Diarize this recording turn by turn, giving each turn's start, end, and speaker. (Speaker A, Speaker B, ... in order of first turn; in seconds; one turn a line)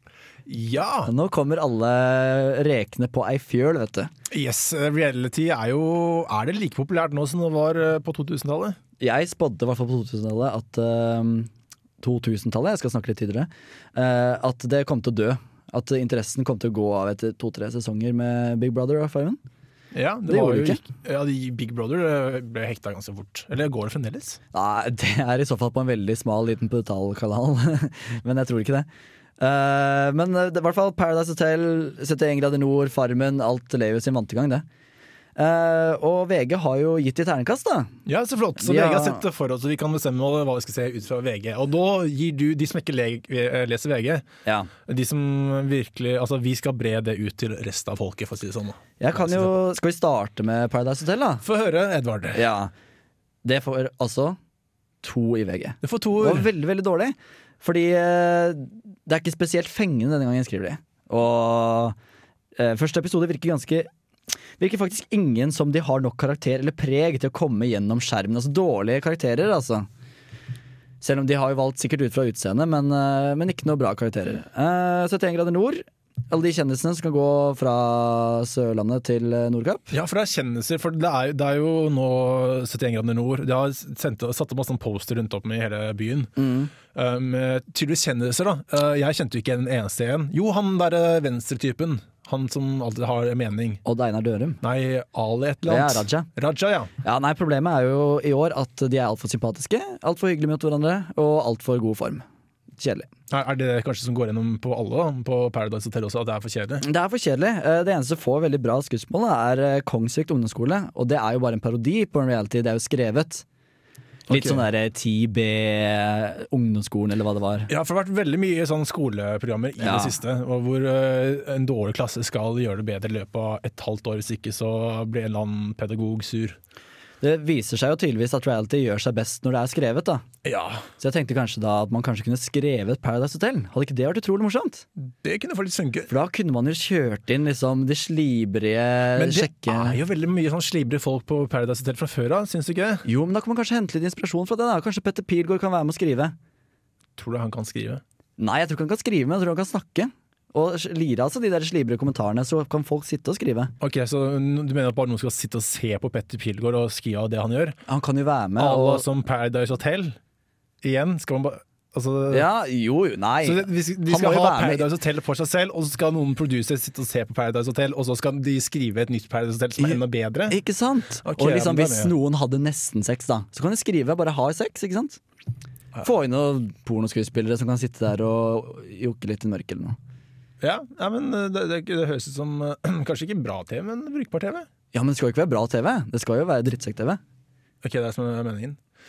Speaker A: 0.5-1.1
Speaker B: 1.1-4.1
Speaker A: 4.3-8.8
Speaker B: 9.0-11.5
Speaker B: 12.0-19.4
Speaker A: 19.9-24.4
Speaker B: 20.3-20.8
Speaker B: 24.5-28.9
Speaker B: 29.4-34.6
Speaker B: 35.4-37.9
Speaker A: 38.1-44.3
Speaker B: 38.6-39.2
Speaker B: 44.5-44.7
Speaker A: 44.9-49.5
Speaker B: 49.0-51.4
Speaker A: 51.4-52.4
Speaker B: 52.3-52.7
Speaker B: 53.4-54.4
Speaker B: 55.0-62.0
Speaker A: 55.8-56.5
Speaker B: 62.6-63.9
Speaker B: 64.6-69.9
Speaker B: 71.0-79.9
Speaker A: 79.9-86.3
Speaker B: 86.4-86.7
Speaker A: 86.9-93.8
Speaker B: 93.8-94.6
Speaker A: 94.6-96.9
Speaker B: 95.7-96.3
Speaker B: 97.0-102.2
Speaker B: 102.8-103.1
Speaker A: 103.3-106.8
Speaker B: 106.8-113.4
Speaker A: 114.3-114.6
Speaker B: 114.3-117.7
Speaker A: 117.7-126.6
Speaker B: 119.8-120.2
Speaker B: 127.2-130.2
Speaker A: 130.4-130.8
Speaker B: 131.0-134.8
Speaker A: 135.0-136.1
Speaker B: 136.1-140.0
Speaker A: 139.2-143.1
Speaker B: 143.1-146.3
Speaker A: 147.2-148.0
Speaker B: 148.4-153.7
Speaker A: 153.8-157.8
Speaker B: 157.9-159.1
Speaker A: 158.6-160.2
Speaker A: 160.8-162.5
Speaker B: 162.3-164.8
Speaker A: 163.4-170.6
Speaker B: 170.5-175.2
Speaker A: 171.2-172.1
Speaker B: 176.0-180.0
Speaker A: 180.6-184.7
Speaker B: 184.9-187.2
Speaker A: 187.8-188.8